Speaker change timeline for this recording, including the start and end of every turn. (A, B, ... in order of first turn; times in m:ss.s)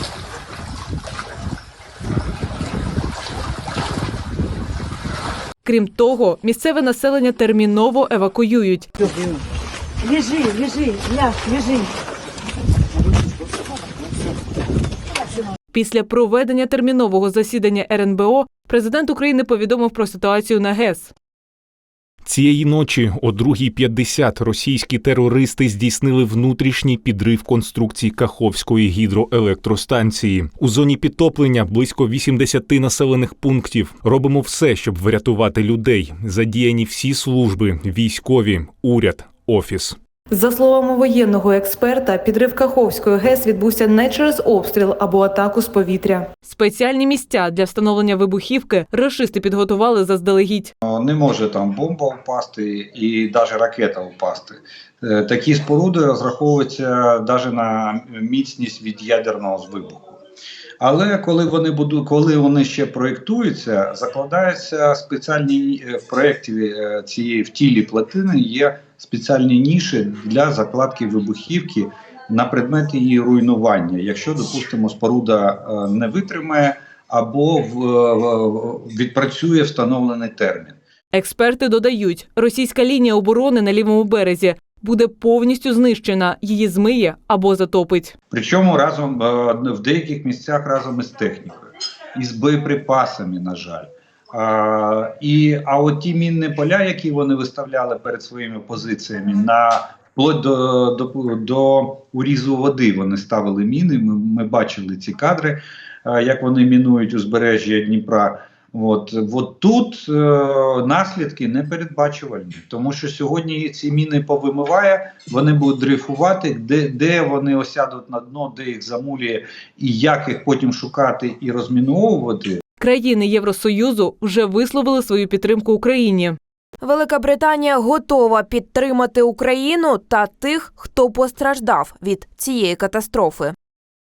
0:05.6-0:08.9 A
0:10.1-0:11.8 B
0:15.7-0:21.1 A
0:22.2-0:40.0 C
0:40.3-0:50.7 A
0:50.8-1:00.2 D
1:00.8-1:20.8 D
1:21.1-1:28.1 A
1:28.3-2:02.6 D
2:02.8-2:06.4 A
2:07.1-2:13.0 E
2:13.1-2:13.4 B